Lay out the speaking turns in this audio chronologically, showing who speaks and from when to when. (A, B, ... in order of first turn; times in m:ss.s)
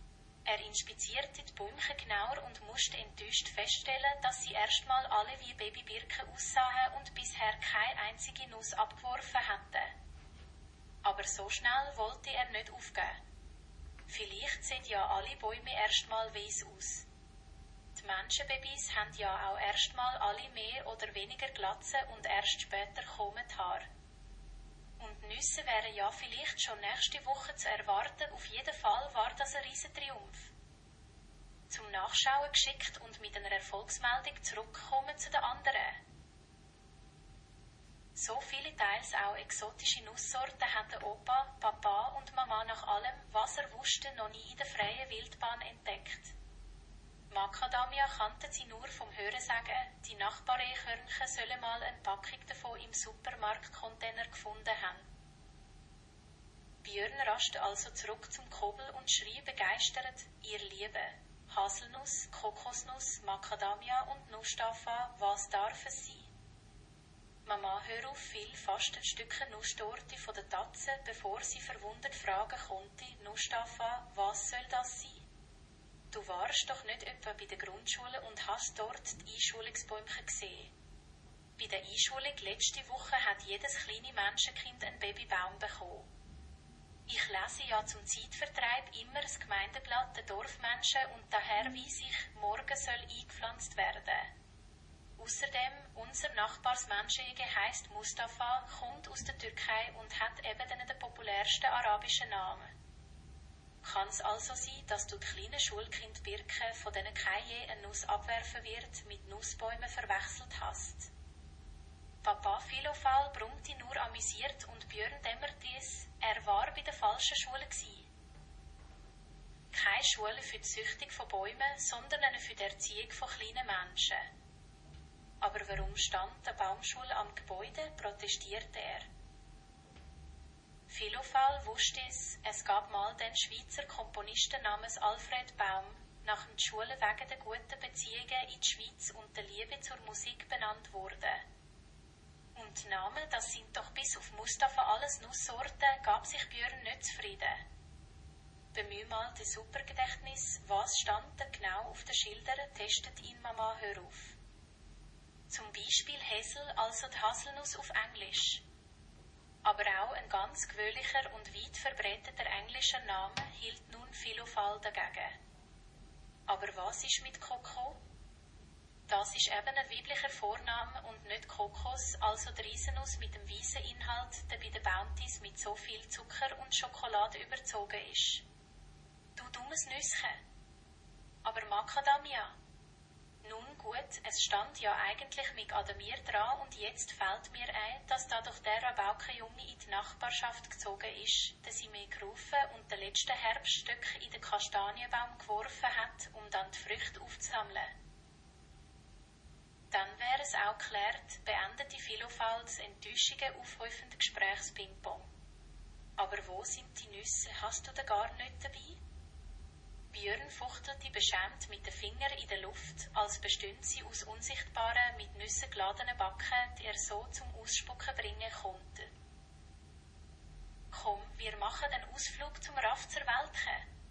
0:00.4-0:09.9 A
0:11.0-0:13.2 A
0:14.1-0:17.0 A
0:17.9-0:23.9 A
0:25.0-0:30.5 A
0:31.7-0:36.0 A
0:38.1-0:46.3 A
0:47.3-0:55.0 A
0:56.8-1:06.3 A
1:07.4-1:15.2 A
1:16.1-1:20.7 A
1:21.6-1:26.1 A
1:27.1-1:34.3 A
1:35.2-1:42.7 A
1:43.8-1:51.1 A
1:52.2-1:58.1 A
1:59.7-2:04.3 A
2:05.4-2:09.1 A
2:10.9-2:21.4 A
2:22.5-2:27.6 A
2:28.7-2:34.4 A
2:35.5-2:38.6 A
2:39.6-2:45.4 A
2:46.5-2:48.0 A
2:49.1-2:58.4 A
2:59.4-3:00.4 A
3:01.4-3:02.5 A
3:03.4-3:17.9 A
3:19.9-3:25.3 A
3:26.2-3:29.0 A
3:30.1-3:39.1 A
3:40.9-3:43.8 A